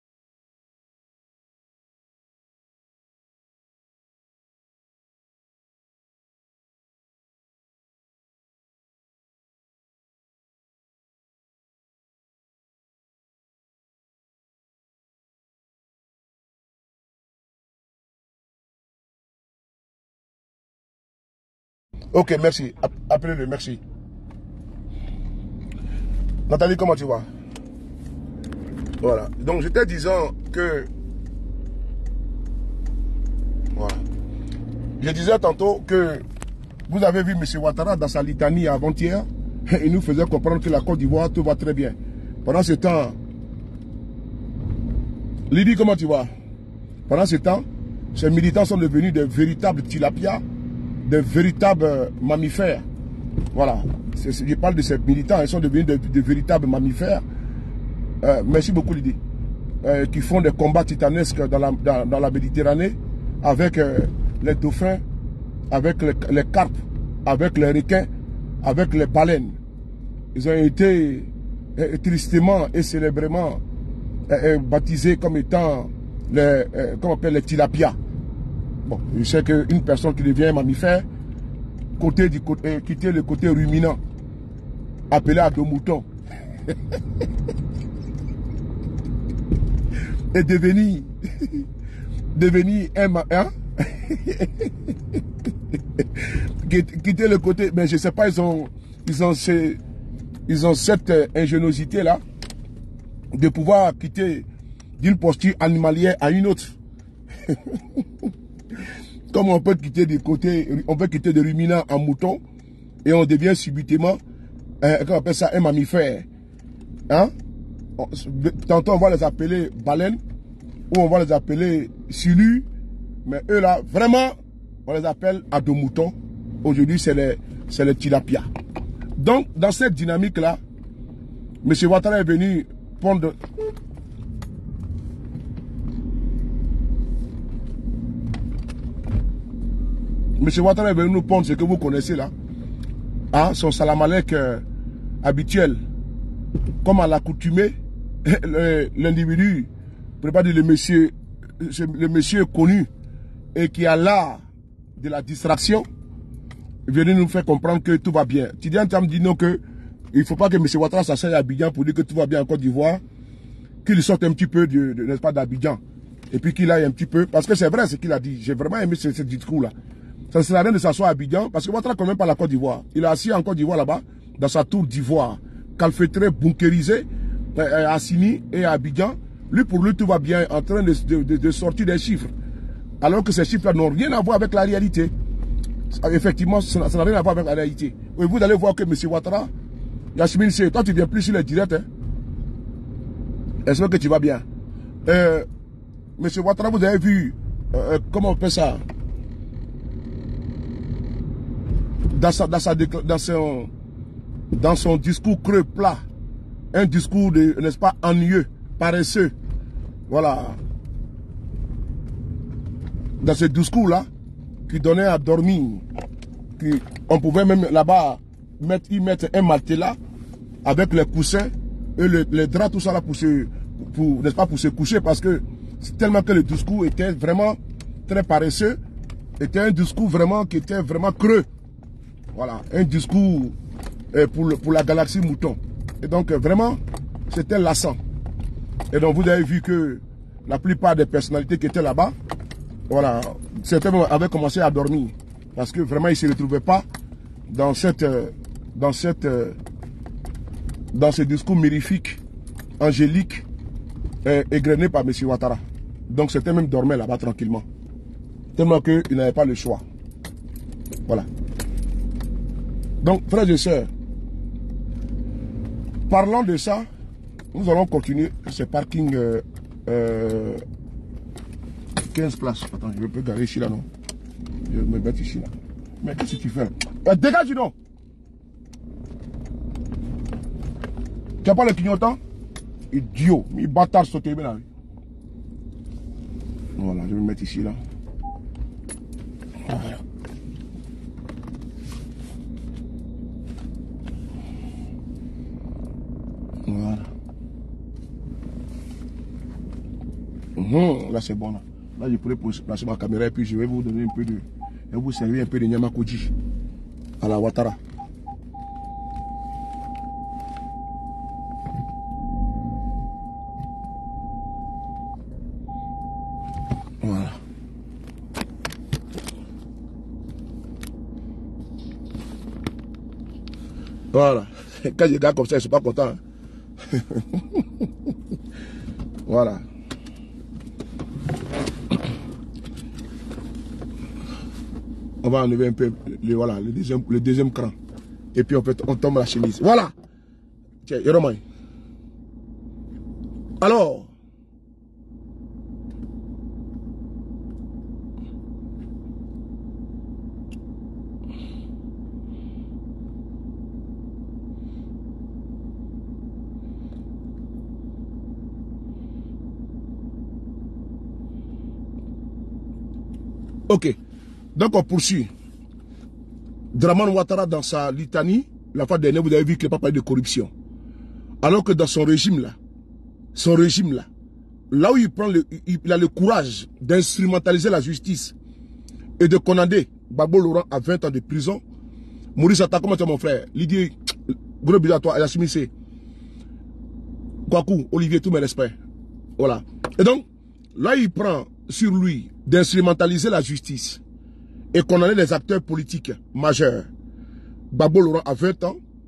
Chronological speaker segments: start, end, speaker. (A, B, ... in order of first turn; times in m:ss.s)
0:22.1-0:23.8 A
0:26.5-0:27.3 A
0:29.0-0:30.9 A
0:33.8-0:34.0 A
0:35.0-0:36.2 A
0:36.9-0:43.2 A
0:45.5-0:46.3 A
0:47.1-0:50.4 A
0:51.1-0:52.8 A
0:53.5-0:57.2 A
0:58.2-0:59.2 A
0:59.8-1:05.0 A
1:05.7-1:08.1 A
1:08.6-1:09.6 A
1:10.4-1:13.6 A
1:14.3-1:18.0 A
1:18.9-1:21.1 A
1:22.0-1:24.0 A
1:25.1-1:26.1 A
1:30.3-1:31.6 A
1:32.4-1:34.9 A
1:36.0-1:39.8 A
1:40.5-1:42.2 A
1:43.3-1:44.5 A
1:45.0-1:46.7 A
1:47.5-1:48.0 A
1:49.3-1:52.4 A
1:53.0-1:54.2 A
1:54.8-1:56.3 A
1:58.0-2:00.2 A
2:00.9-2:02.7 A
2:03.2-2:04.3 A
2:04.9-2:08.5 A
2:09.2-2:10.6 A
2:11.6-2:13.4 A
2:20.4-2:22.3 A
2:23.3-2:24.6 A
2:25.2-2:25.8 A
2:26.8-2:29.7 A
2:30.2-2:32.9 A
2:33.6-2:34.4 A
2:35.0-2:35.9 A
2:36.9-2:39.6 A
2:40.1-2:43.0 A
2:43.8-2:45.8 A
2:46.3-2:49.7 A
2:50.3-3:02.3 A
3:03.0-3:05.1 A
3:05.9-3:09.5 A
3:10.2-3:11.9 A
3:13.6-3:14.4 A
3:15.1-3:15.5 A
3:16.2-3:18.8 A
3:22.1-3:23.7 A
3:24.5-3:26.0 A
3:26.7-3:29.3 A
3:30.1-3:30.6 A
3:33.2-3:34.1 A
3:34.7-3:35.8 A
3:36.6-3:40.0 A
3:40.6-3:48.8 A
3:49.4-3:51.5 A
3:52.3-3:53.5 A
3:54.1-3:58.0 A
3:58.9-4:02.2 A
4:02.9-4:06.8 A
4:07.5-4:09.6 A
4:10.9-4:12.2 A
4:12.8-4:13.4 A
4:14.2-4:17.6 A
4:18.6-4:19.8 A
4:23.0-4:23.9 A
4:26.1-4:26.9 A
4:27.5-4:30.6 A
4:32.0-4:33.9 A
4:34.7-4:37.7 A
4:41.4-4:42.2 A
4:42.9-4:44.7 A
4:46.8-4:47.8 A
4:49.6-4:50.0 A
4:56.7-4:57.1 A
5:00.6-5:06.3 A
5:07.2-5:07.8 A
5:17.0-5:17.4 A
5:24.1-5:26.2 A
5:26.9-5:27.8 A
5:29.3-5:29.6 A
5:35.2-5:37.7 A
5:38.3-5:39.9 A
5:40.8-5:41.4 A
5:43.6-5:44.1 A
6:03.7-6:04.0 A
6:04.6-6:05.3 A
6:06.7-6:10.5 A
6:11.4-6:12.6 A
6:13.4-6:14.1 A
6:14.7-6:18.3 A
6:19.2-6:21.6 A
6:22.4-6:23.9 A
6:24.6-6:25.7 A
6:27.5-6:28.8 A
6:29.4-6:30.2 A
6:30.8-6:34.0 A
6:34.7-6:36.9 A
6:37.7-6:38.8 A